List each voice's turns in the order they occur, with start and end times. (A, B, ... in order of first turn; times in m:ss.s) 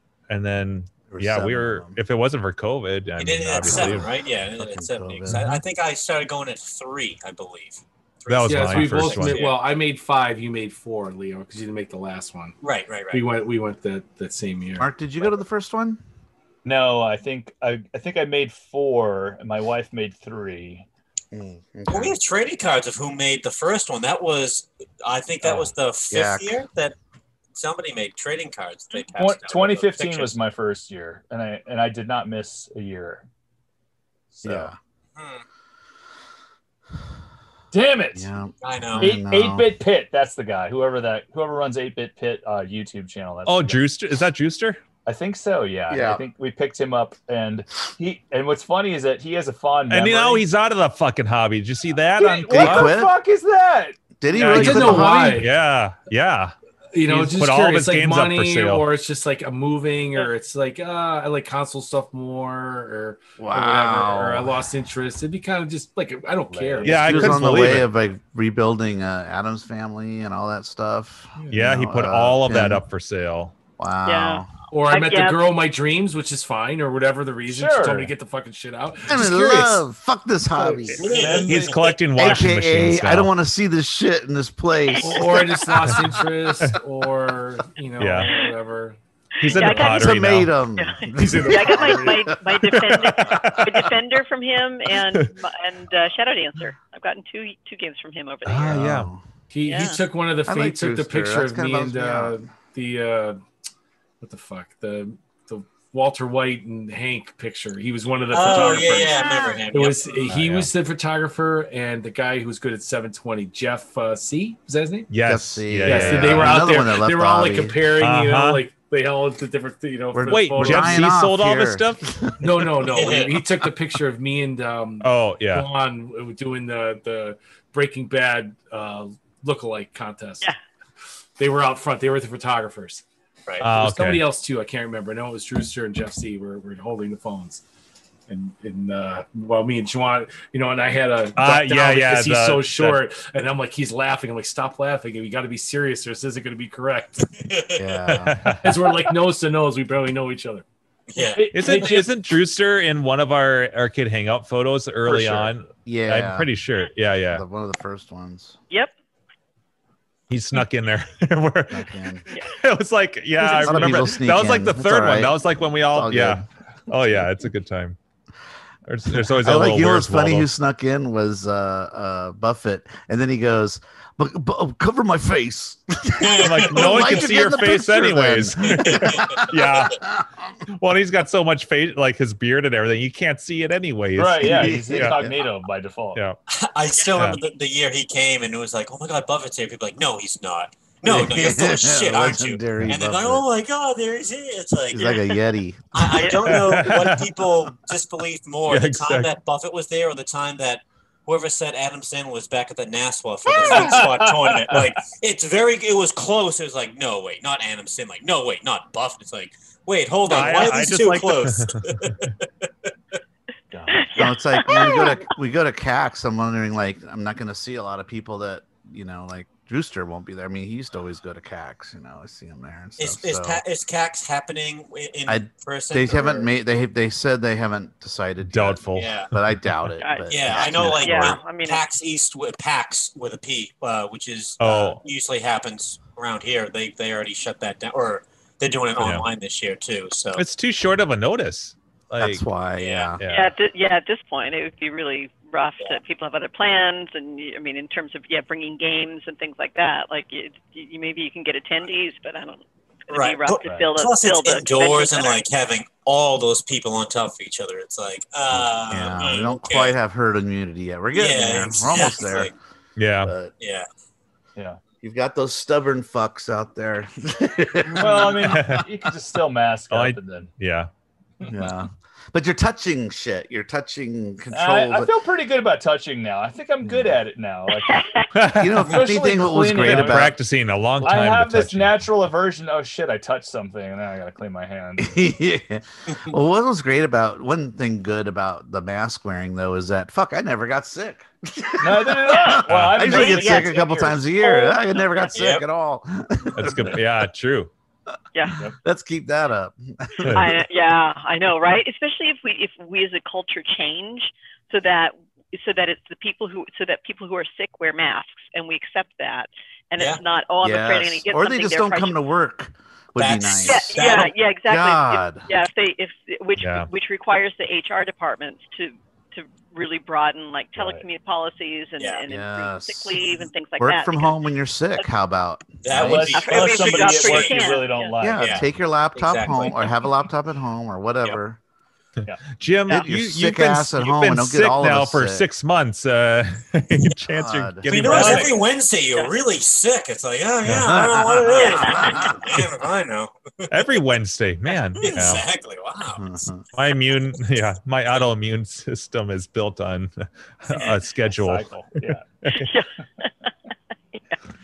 0:00.3-0:04.1 A
0:01.1-0:02.0 B
0:03.2-0:09.6 C
0:03.6-0:05.5 B
0:05.3-0:05.6 A
0:08.3-0:09.5 A
0:08.4-0:12.6 D
0:12.6-0:13.2 C
0:13.1-0:14.9 D
0:14.8-0:16.0 B
0:16.6-0:20.8 E
0:21.3-0:22.2 B
0:21.9-0:26.9 C
0:25.4-0:26.6 B
0:27.5-0:30.3 C
0:29.1-0:33.2 E
0:34.3-0:34.7 E
0:34.4-0:34.8 B
0:35.2-0:35.4 C
0:37.7-0:38.3 E
0:38.1-0:39.7 B
0:38.6-0:39.1 C
0:39.0-0:43.8 E
0:43.4-0:44.8 A
0:45.0-0:50.4 E
0:45.9-0:46.2 B
0:49.9-0:52.9 A
0:52.2-0:54.8 E
0:52.5-0:53.2 B
0:54.2-0:55.4 B
0:54.4-0:55.5 D
0:54.4-0:56.5 A
0:56.9-1:07.8 D
0:57.0-0:58.9 A
1:03.4-1:04.5 B
1:06.5-1:12.8 B
1:06.6-1:06.8 E
1:06.8-1:07.9 A
1:11.5-1:13.5 A
1:13.8-1:14.5 B
1:14.0-1:15.4 F
1:14.7-1:19.8 D
1:17.5-1:18.1 E
1:19.1-1:21.2 B
1:20.6-1:21.5 D
1:21.0-1:22.0 C
1:21.0-1:21.8 E
1:21.2-1:23.3 A
1:22.1-1:25.6 B
1:24.9-1:25.1 F
1:25.0-1:29.0 D
1:28.0-1:28.3 A
1:28.2-1:28.5 F
1:29.4-1:30.2 F
1:29.4-1:30.6 A
1:29.6-1:33.6 B
1:30.8-1:38.8 F
1:31.1-1:32.3 D
1:32.9-1:33.9 A
1:38.4-1:39.1 A
1:38.6-1:39.2 B
1:39.5-1:43.4 D
1:39.6-1:40.0 F
1:40.5-1:42.4 B
1:44.2-1:55.1 D
1:48.3-1:50.2 C
1:48.5-1:49.6 F
1:50.3-1:50.7 A
1:55.1-1:56.8 A
1:55.2-1:57.9 B
1:55.8-2:01.1 D
1:57.9-1:58.6 A
2:00.1-2:02.8 B
2:00.3-2:02.1 A
2:02.4-2:10.5 D
2:02.9-2:03.4 C
2:05.0-2:05.7 A
2:11.4-2:13.0 D
2:13.6-2:14.2 A
2:13.7-2:17.6 D
2:18.3-2:27.3 D
2:21.4-2:23.0 A
2:27.4-2:27.8 C
2:27.8-2:28.5 B
2:28.1-2:28.8 A
2:28.5-2:30.6 D
2:31.1-2:31.5 C
2:31.2-2:32.1 E
2:31.5-2:37.4 A
2:31.6-2:32.0 D
2:35.1-2:35.4 E
2:35.8-2:36.5 B
2:37.3-2:38.6 B
2:40.3-2:48.0 A
2:41.7-2:42.2 B
2:43.4-2:43.9 F
2:43.6-2:46.4 B
2:47.0-2:47.2 B
2:48.8-2:50.5 A
2:49.1-3:00.5 B
2:56.2-2:57.4 C
2:56.3-3:00.0 A
2:58.8-2:59.4 C
3:00.7-3:05.2 A
3:04.2-3:06.2 E
3:04.4-3:05.4 B
3:06.5-3:15.2 C
3:07.1-3:07.4 A
3:11.0-3:13.4 B
3:14.9-3:16.3 B
3:15.9-3:32.3 C
3:16.4-3:17.3 A
3:18.7-3:19.3 A
3:23.6-3:24.9 E
3:23.6-3:24.0 F
3:30.2-3:32.3 A
3:33.7-3:34.2 E
3:33.9-3:35.3 F
3:34.1-3:43.6 B
3:43.0-3:46.5 C
3:45.3-3:51.3 B
3:48.5-3:49.9 A
3:49.0-3:49.3 C
3:50.0-3:51.8 F
3:50.3-4:00.4 C
3:54.6-3:55.0 A
3:59.0-3:59.3 A
4:00.3-4:02.4 A
4:02.2-4:03.2 B
4:02.8-4:03.1 C
4:03.2-4:03.5 A
4:03.2-4:15.4 F
4:13.1-4:20.0 C
4:13.6-4:13.9 E
4:18.5-4:22.5 B
4:21.1-4:22.5 C
4:23.0-4:23.3 A
4:23.2-4:23.5 B
4:23.6-4:23.9 C
4:25.0-4:28.8 B
4:28.0-4:28.3 C
4:28.0-4:30.5 E
4:28.4-4:28.8 A
4:29.9-4:30.9 A
4:31.4-4:35.1 B
4:34.5-4:38.2 E
4:36.8-4:37.2 B
4:37.7-4:38.3 F
4:38.3-4:38.9 A
4:38.5-4:40.4 B
4:38.8-4:40.4 E
4:39.8-4:42.0 A
4:41.0-4:45.2 E
4:45.0-4:57.0 B
4:51.8-4:54.5 E
4:52.3-4:53.8 F
4:52.7-4:53.1 A
4:54.4-4:55.2 F
4:55.3-4:55.6 C
4:56.6-4:57.7 A
4:58.8-5:00.6 B
5:00.2-5:00.5 A
5:00.3-5:12.2 F
5:10.6-5:14.1 B
5:13.2-5:14.3 C
5:13.6-5:25.1 F
5:14.6-5:15.5 B
5:16.6-5:16.9 A
5:22.3-5:23.2 B
5:23.8-5:26.4 B
5:25.8-5:27.8 C
5:25.9-5:28.6 E
5:26.3-5:28.1 F
5:28.2-5:31.6 B
5:28.4-5:30.0 C
5:32.4-5:38.5 A
5:32.9-5:35.4 B
5:37.3-5:38.0 B
5:37.9-5:43.8 C
5:38.0-5:38.6 E
5:40.6-5:40.9 A
5:40.8-5:42.6 B
5:41.6-5:42.1 F
5:43.7-5:45.4 A
5:45.0-5:46.4 C
5:46.1-5:46.6 B
5:46.7-5:52.7 A
5:50.7-5:51.0 C
5:51.3-5:52.2 E
5:52.5-5:53.3 F